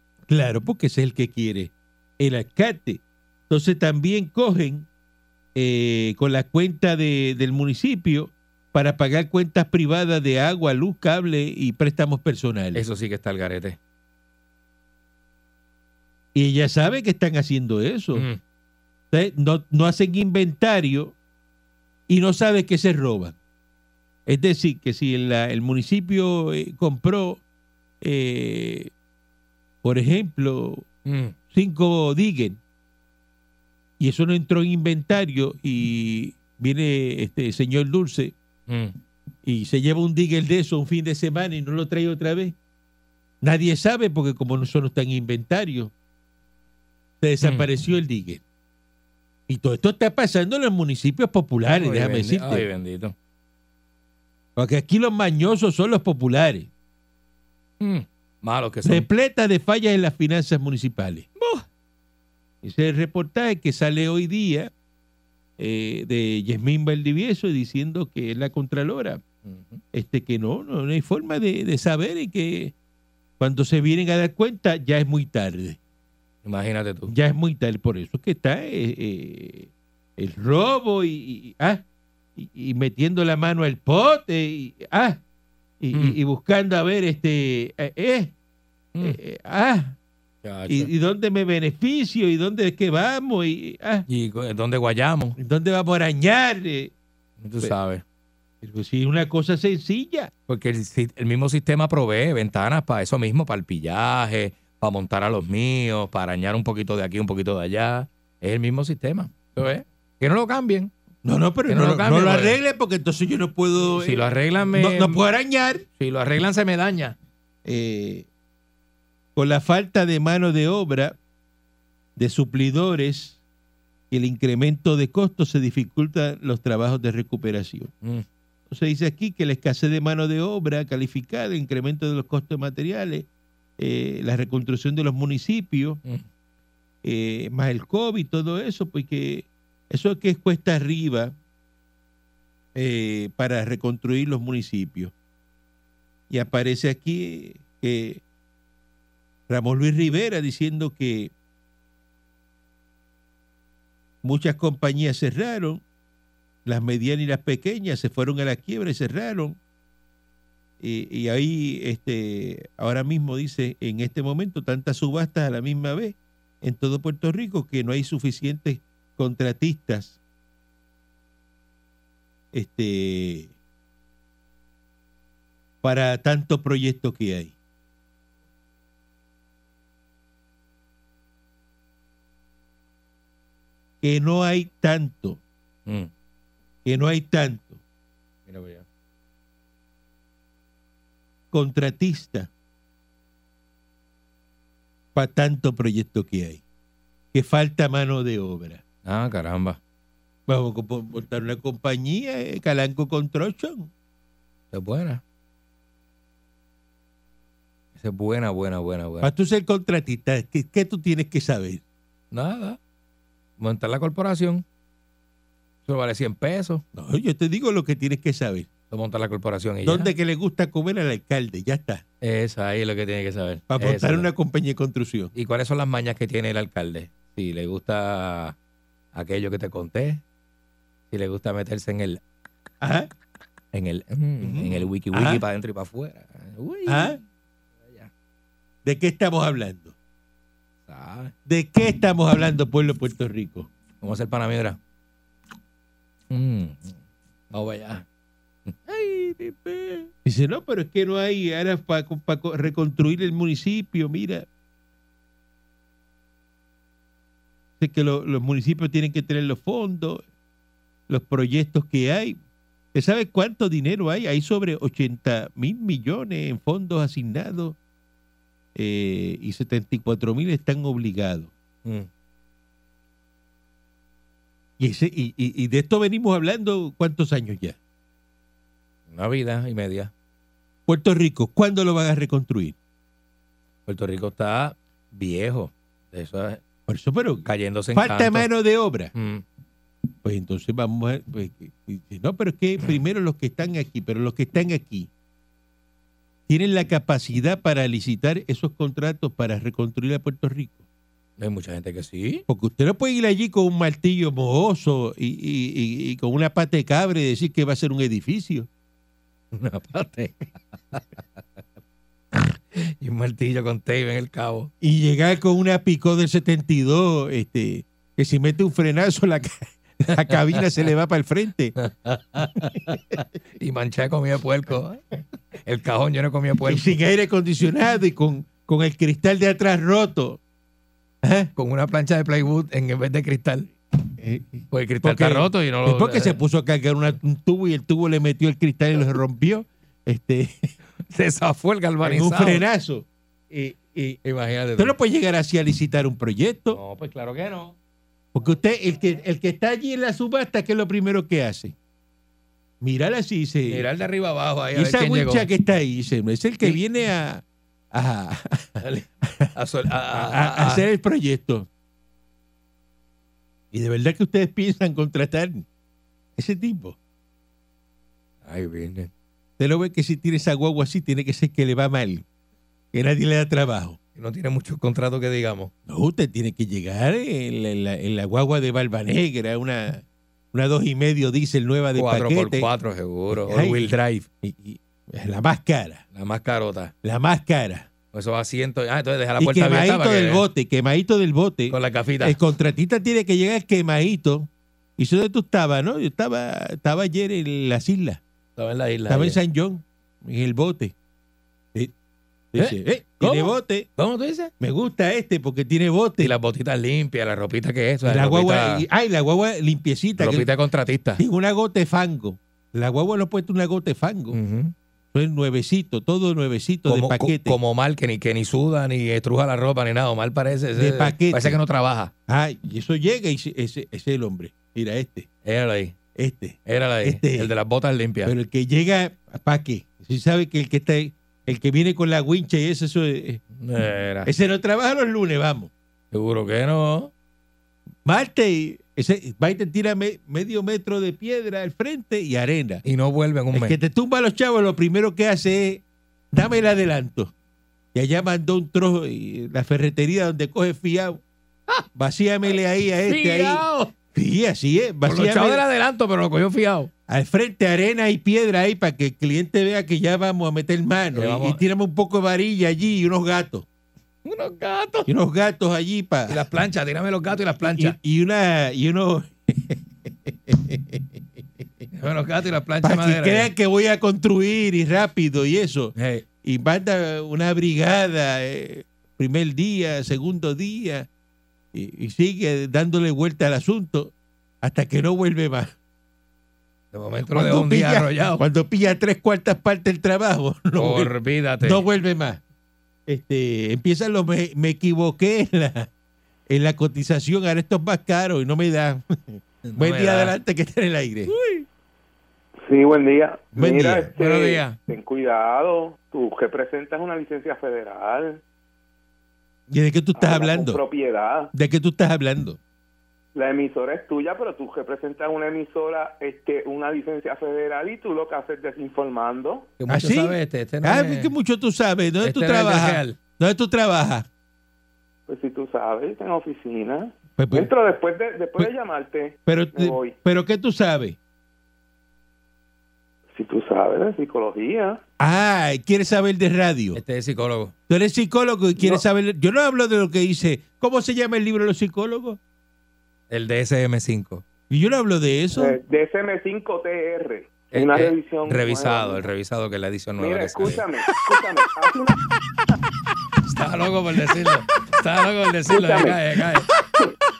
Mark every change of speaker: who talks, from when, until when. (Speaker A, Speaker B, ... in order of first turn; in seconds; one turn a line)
Speaker A: 0.3-4.9
Speaker A: 5.5-12.8
Speaker B: 12.7-13.8
Speaker A: 16.4-18.2
Speaker B: 18.1-18.4
Speaker A: 19.1-21.1
Speaker A: 22.1-23.4
Speaker A: 24.2-27.4
Speaker A: 28.0-28.9
Speaker A: 29.8-30.9
Speaker B: 31.1-31.4
Speaker A: 31.5-32.6
Speaker A: 34.0-38.3
Speaker B: 38.7-38.9
Speaker A: 39.4-42.5
Speaker A: 43.4-45.9
Speaker A: 47.2-48.4
Speaker A: 49.5-52.6
Speaker B: 51.8-53.1
Speaker A: 54.6-56.7
Speaker B: 57.8-59.1
Speaker A: 58.9-61.3
Speaker B: 61.4-61.6
Speaker A: 62.6-64.7
Speaker A: 65.6-69.2
Speaker B: 69.4-69.8
Speaker A: 69.9-72.7
Speaker A: 73.4-75.8
Speaker B: 76.4-77.1
Speaker A: 77.1-81.8
Speaker A: 82.4-85.2
Speaker A: 85.8-88.3
Speaker A: 89.0-90.0
Speaker B: 90.4-90.9
Speaker A: 90.7-94.1
Speaker B: 94.1-95.4
Speaker A: 95.4-96.9
Speaker B: 97.4-98.0
Speaker A: 98.6-100.3
Speaker B: 100.5-110.9
Speaker A: 111.2-115.8
Speaker B: 111.7-112.6
Speaker B: 113.9-115.2
Speaker B: 116.0-117.2
Speaker A: 117.6-118.3
Speaker A: 119.4-121.2
Speaker A: 122.2-123.4
Speaker A: 124.1-127.9
Speaker A: 128.7-133.3
Speaker A: 133.8-136.0
Speaker A: 137.0-141.3
Speaker A: 142.7-145.1
Speaker A: 146.3-148.2
Speaker A: 149.5-151.3
Speaker A: 154.2-155.8
Speaker A: 156.6-159.6
Speaker A: 160.8-170.2
Speaker A: 172.5-173.5
Speaker A: 175.8-177.5
Speaker A: 184.0-185.4
Speaker A: 186.8-187.8
Speaker B: 188.5-188.8
Speaker A: 191.5-192.5
Speaker A: 195.1-196.6
Speaker A: 197.3-198.8
Speaker B: 199.1-199.8
Speaker A: 200.5-203.9
Speaker B: 204.7-205.2
Speaker B: 207.9-209.3
Speaker A: 209.2-211.8
Speaker B: 212.3-212.8
Speaker B: 213.6-214.6
Speaker B: 215.9-216.8
Speaker A: 216.9-218.7
Speaker B: 218.9-220.1
Speaker A: 219.8-222.0
Speaker B: 222.2-224.3
Speaker A: 223.7-225.3
Speaker B: 225.3-228.6
Speaker B: 229.1-230.2
Speaker B: 231.1-232.2
Speaker A: 232.8-233.1
Speaker B: 233.7-237.2
Speaker A: 234.4-235.4
Speaker A: 236.9-237.2
Speaker B: 237.8-238.1
Speaker A: 238.8-239.9
Speaker B: 240.9-241.3
Speaker A: 241.4-243.7
Speaker B: 244.0-244.8
Speaker B: 246.3-247.0
Speaker B: 247.5-248.1
Speaker B: 248.7-250.1
Speaker A: 250.2-254.4
Speaker A: 257.8-260.2
Speaker A: 261.1-262.4
Speaker A: 262.9-267.8
Speaker A: 268.7-271.5
Speaker A: 274.8-277.8
Speaker B: 279.1-280.1
Speaker A: 280.9-282.7
Speaker B: 283.9-286.6
Speaker A: 286.9-289.1
Speaker B: 287.4-288.5
Speaker B: 289.1-289.4
Speaker A: 290.2-295.1
Speaker A: 296.5-300.8
Speaker B: 301.4-302.4
Speaker A: 302.5-308.7
Speaker B: 309.5-311.6
Speaker B: 312.3-314.7
Speaker A: 314.8-321.7
Speaker B: 320.2-320.6
Speaker B: 321.8-325.0
Speaker A: 322.6-323.2
Speaker B: 325.6-326.9
Speaker A: 326.7-330.4
Speaker A: 331.2-331.5
Speaker B: 331.6-333.7
Speaker A: 334.2-340.7
Speaker B: 334.7-336.4
Speaker B: 341.1-342.6
Speaker A: 342.0-344.2
Speaker B: 344.2-344.9
Speaker A: 344.8-346.8
Speaker B: 346.7-347.8
Speaker A: 348.3-351.7
Speaker A: 352.8-353.9
Speaker B: 353.7-355.5
Speaker A: 354.7-359.5
Speaker B: 358.8-360.9
Speaker A: 360.1-361.7
Speaker A: 363.7-365.6
Speaker A: 366.4-366.9
Speaker B: 368.4-369.1
Speaker A: 369.6-372.2
Speaker A: 372.9-374.0
Speaker B: 374.1-375.7
Speaker A: 375.9-382.7
Speaker B: 381.9-384.2
Speaker A: 383.3-383.9
Speaker A: 384.4-386.0
Speaker B: 386.1-386.9
Speaker A: 387.0-387.9
Speaker B: 388.1-390.4
Speaker A: 389.4-398.2
Speaker B: 391.7-392.4
Speaker B: 398.6-399.4
Speaker A: 399.1-400.9
Speaker A: 402.5-403.9
Speaker B: 402.6-404.5
Speaker A: 404.6-406.3
Speaker B: 406.2-408.9
Speaker A: 408.1-410.5
Speaker B: 410.2-411.2
Speaker A: 411.2-414.4
Speaker B: 414.3-414.7
Speaker A: 415.1-417.6
Speaker B: 416.9-422.1
Speaker A: 420.8-421.6
Speaker A: 422.3-425.3
Speaker B: 425.4-425.9
Speaker A: 426.1-427.5
Speaker B: 426.6-428.3
Speaker A: 428.2-433.4
Speaker B: 433.5-434.3
Speaker A: 434.2-435.7
Speaker B: 436.1-437.1
Speaker A: 438.1-442.8
Speaker B: 442.9-443.8
Speaker A: 443.5-447.3
Speaker A: 447.9-451.2
Speaker A: 451.9-455.6
Speaker B: 453.1-453.9
Speaker B: 455.1-456.9
Speaker A: 457.1-463.6
Speaker B: 461.1-461.6
Speaker B: 464.2-465.1
Speaker A: 465.1-466.4
Speaker B: 466.3-467.9
Speaker A: 467.6-471.1
Speaker B: 471.9-473.5
Speaker A: 472.8-481.1
Speaker B: 475.9-476.2
Speaker A: 481.7-485.7
Speaker B: 486.9-488.4
Speaker A: 487.3-492.4
Speaker B: 490.7-491.9
Speaker A: 493.1-495.9
Speaker A: 496.5-501.3
Speaker B: 499.7-500.3
Speaker B: 501.3-501.6
Speaker C: 502.6-508.4
Speaker A: 503.5-504.1
Speaker B: 504.2-504.8
Speaker A: 509.7-510.8
Speaker C: 510.1-511.5
Speaker A: 511.5-512.6
Speaker C: 513.4-519.7
Speaker B: 519.8-521.3
Speaker A: 519.9-524.2
Speaker B: 522.2-523.2
Speaker C: 525.3-530.1
Speaker A: 527.4-527.7
Speaker A: 529.5-531.2
Speaker C: 533.3-535.0
Speaker A: 535.2-537.0
Speaker B: 536.9-537.7
Speaker A: 537.9-542.4
Speaker B: 543.3-544.4
Speaker A: 544.7-545.8
Speaker C: 545.6-549.2
Speaker B: 547.7-550.8
Speaker C: 550.2-552.2
Speaker B: 553.4-556.7
Speaker C: 555.7-556.2